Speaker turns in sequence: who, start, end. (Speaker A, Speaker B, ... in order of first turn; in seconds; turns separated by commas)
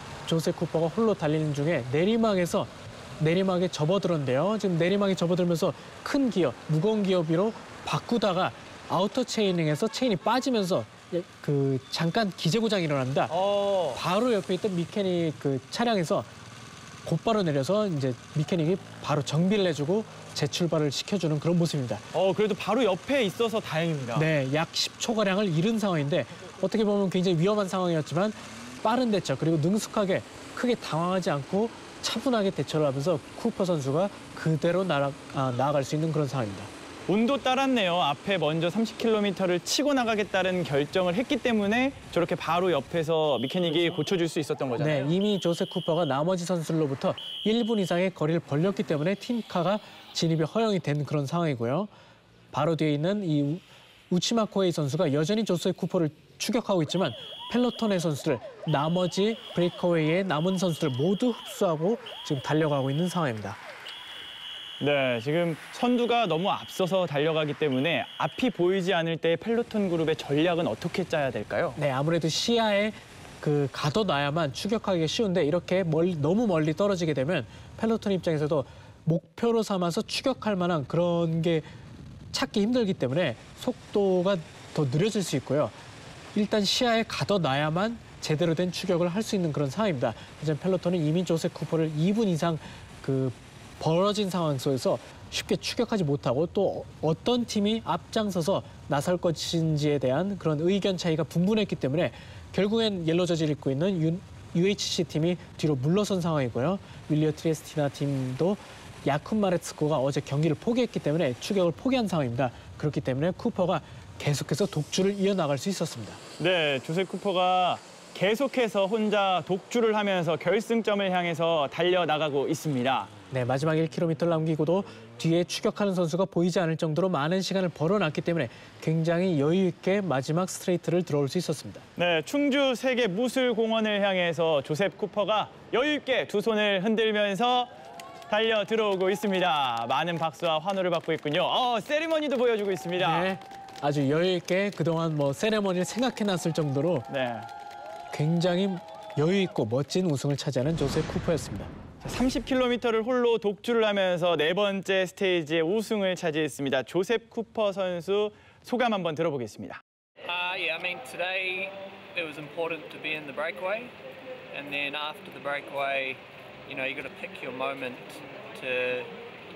Speaker A: 0.2-13.3, Speaker B: 13.3-14.0, Speaker A: 13.9-16.3, Speaker A: 17.0-22.1, Speaker B: 22.1-24.3, Speaker A: 24.1-36.7, Speaker B: 37.1-45.1, Speaker A: 44.8-51.9, Speaker A: 52.5-63.6, Speaker B: 64.8-71.8, Speaker A: 71.8-81.7, Speaker A: 82.3-85.8, Speaker A: 86.3-116.2, Speaker B: 116.4-123.1, Speaker A: 123.3-131.8, Speaker B: 132.0-137.7, Speaker B: 138.3-143.3, Speaker A: 143.0-147.1, Speaker B: 147.1-147.5, Speaker A: 148.1-151.7, Speaker B: 152.0-159.8, Speaker C: 160.2-163.9, Speaker C: 164.5-169.1